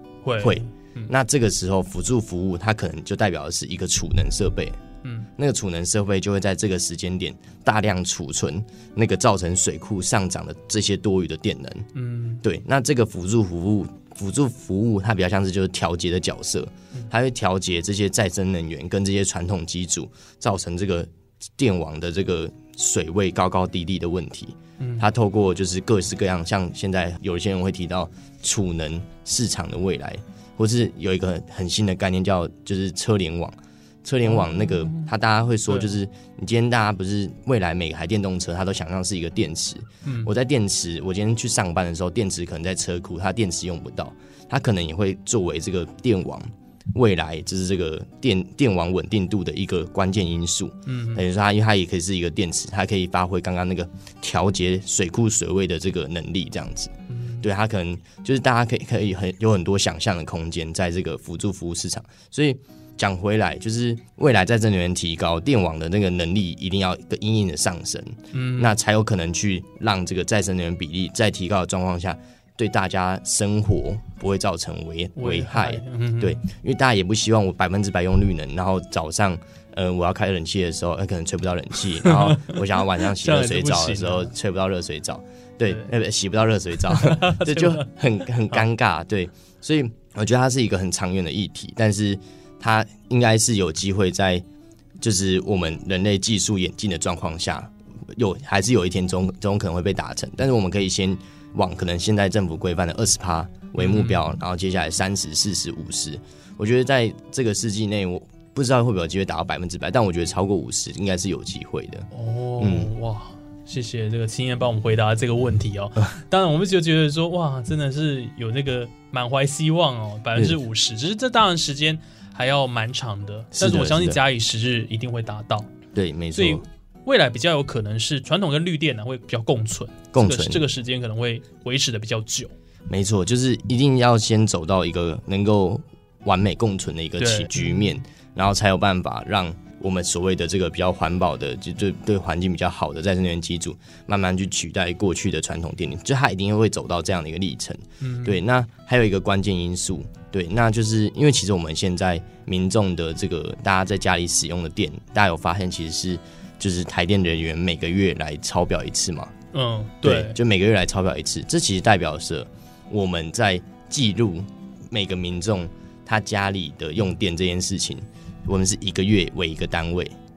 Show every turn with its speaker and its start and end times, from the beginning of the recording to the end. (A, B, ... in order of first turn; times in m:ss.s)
0:00.2-0:01.1 A
0:00.4-0:04.8 B
0:05.0-0:05.3 A
0:05.4-0:11.9 B
0:11.9-0:12.4 A
0:12.4-1:34.4 B
0:24.8-0:25.1 A
0:34.2-0:35.1 A
0:35.7-0:35.9 A
0:40.0-0:40.3 A
0:50.8-0:51.2 A
0:57.1-0:57.5 A
1:08.3-1:08.8 A
1:15.2-1:16.4 A
1:22.0-1:24.3 A
1:25.6-1:25.9 A
1:26.9-1:27.9 A
1:35.0-1:52.9 B
1:43.8-1:44.2 A
1:52.1-2:05.7 A
2:03.5-2:04.2 B
2:05.9-2:06.6 B
2:06.3-2:12.5 A
2:10.1-2:10.6 B
2:12.9-2:39.3 B
2:17.2-2:18.0 A
2:28.0-2:28.4 A
2:39.5-2:40.4 A
2:40.0-2:50.2 B